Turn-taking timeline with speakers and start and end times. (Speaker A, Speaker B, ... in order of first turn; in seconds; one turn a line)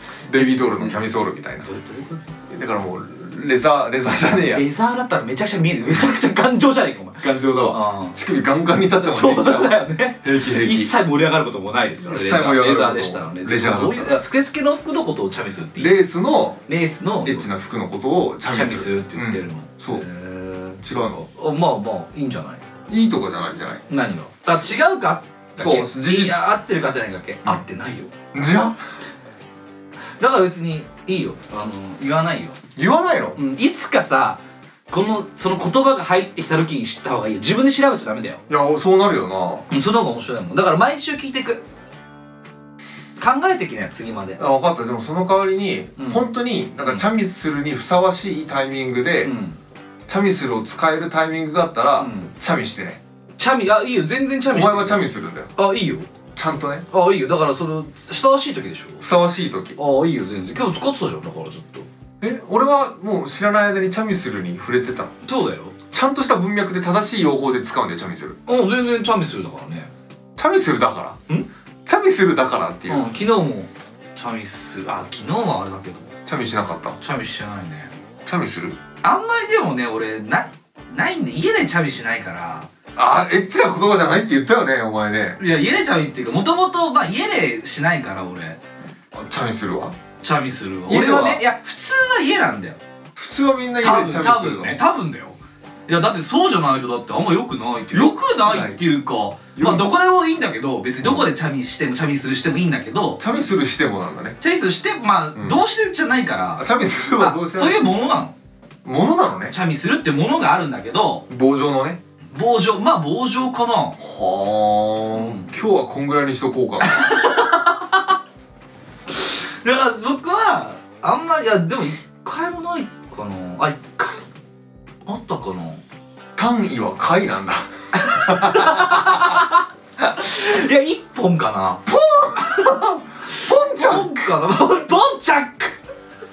Speaker A: 0.2-1.7
Speaker B: 1.6-2.3
Speaker A: 2.5-4.7
Speaker B: 4.5-8.2
Speaker A: 7.2-10.9
Speaker B: 8.9-16.0
Speaker A: 12.0-14.2
Speaker A: 15.8-16.6
Speaker B: 16.7-17.5
Speaker A: 17.2-20.1
Speaker B: 18.5-20.8
Speaker A: 20.8-21.3
Speaker B: 21.3-22.7
Speaker A: 22.9-23.8
Speaker B: 23.9-28.1
Speaker A: 25.6-26.5
Speaker A: 28.3-28.8
Speaker B: 30.2-32.6
Speaker A: 32.8-33.4
Speaker B: 33.4-38.4
Speaker A: 38.5-39.7
Speaker B: 39.7-41.6
Speaker B: 43.2-44.4
Speaker A: 44.4-49.3
Speaker B: 46.0-46.3
Speaker B: 49.2-49.6
Speaker A: 50.1-53.0
Speaker B: 52.0-52.3
Speaker B: 53.4-55.0
Speaker A: 54.5-55.5
Speaker B: 55.6-56.1
Speaker A: 56.4-56.9
Speaker B: 56.9-59.0
Speaker A: 59.0-59.8
Speaker B: 59.8-61.9
Speaker A: 62.2-65.1
Speaker B: 65.2-65.8
Speaker A: 65.9-68.4
Speaker B: 68.5-69.9
Speaker A: 70.4-71.2
Speaker A: 71.9-73.1
Speaker B: 72.9-76.2
Speaker A: 76.3-77.0
Speaker B: 77.0-77.9
Speaker A: 78.2-78.8
Speaker B: 79.0-82.7
Speaker A: 83.0-85.4
Speaker B: 85.4-88.6
Speaker A: 89.1-90.0
Speaker B: 90.2-92.8
Speaker A: 90.9-91.4
Speaker A: 93.2-94.8
Speaker B: 93.8-103.2
Speaker A: 97.9-98.8
Speaker A: 99.6-99.9
Speaker A: 101.0-101.3
Speaker A: 103.2-104.4
Speaker B: 104.4-108.3
Speaker A: 105.3-105.6
Speaker A: 106.6-108.0
Speaker A: 108.8-109.5
Speaker B: 109.5-111.3
Speaker A: 111.3-112.0
Speaker B: 112.3-114.0
Speaker A: 114.0-117.2
Speaker B: 115.1-115.5
Speaker B: 116.8-118.1
Speaker B: 119.1-124.3
Speaker B: 125.1-125.8
Speaker A: 126.4-129.2
Speaker B: 128.0-135.8
Speaker A: 132.4-134.2